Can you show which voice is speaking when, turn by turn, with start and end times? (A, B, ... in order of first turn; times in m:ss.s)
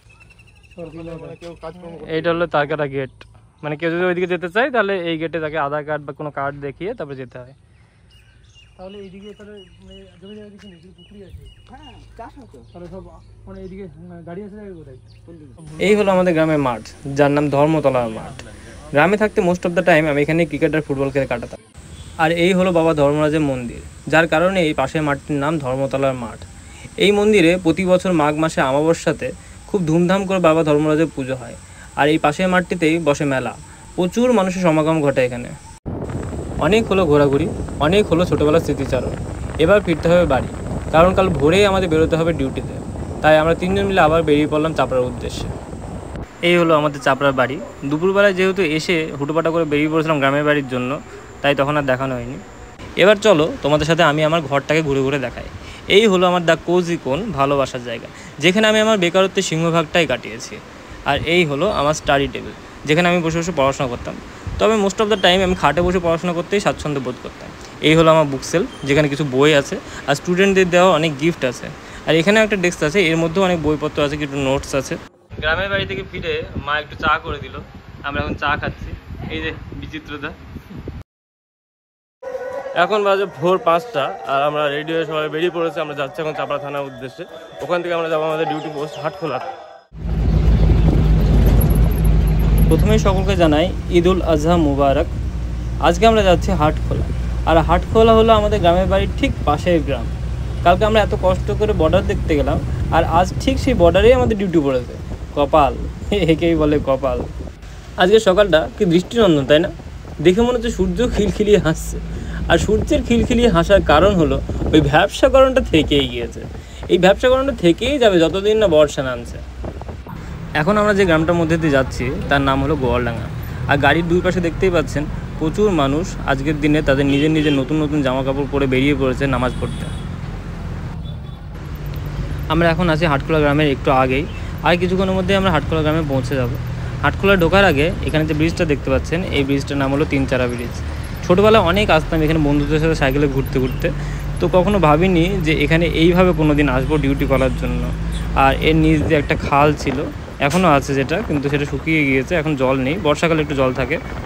0:00.8-0:01.9 A
0:00.9-0:01.4 B
0:01.8-0:07.6 C
0:08.8-0:09.6 C
0:08.9-0:11.5 B
0:11.7-0:12.7 A
0:13.0-0:15.0 B
0:15.3-0:15.7 A
0:15.7-0:21.6 C
0:22.2-0:26.4 C
0:27.0-0:35.5 C
0:36.6-0:45.5 C
0:46.4-0:52.4 C
0:53.0-1:20.4 C
1:22.7-1:29.5 C
1:32.7-1:35.1 C
1:35.8-1:40.1 C
1:40.6-1:47.3 C
1:48.0-1:59.4 C
2:00.6-2:09.9 C
2:12.5-2:34.0 C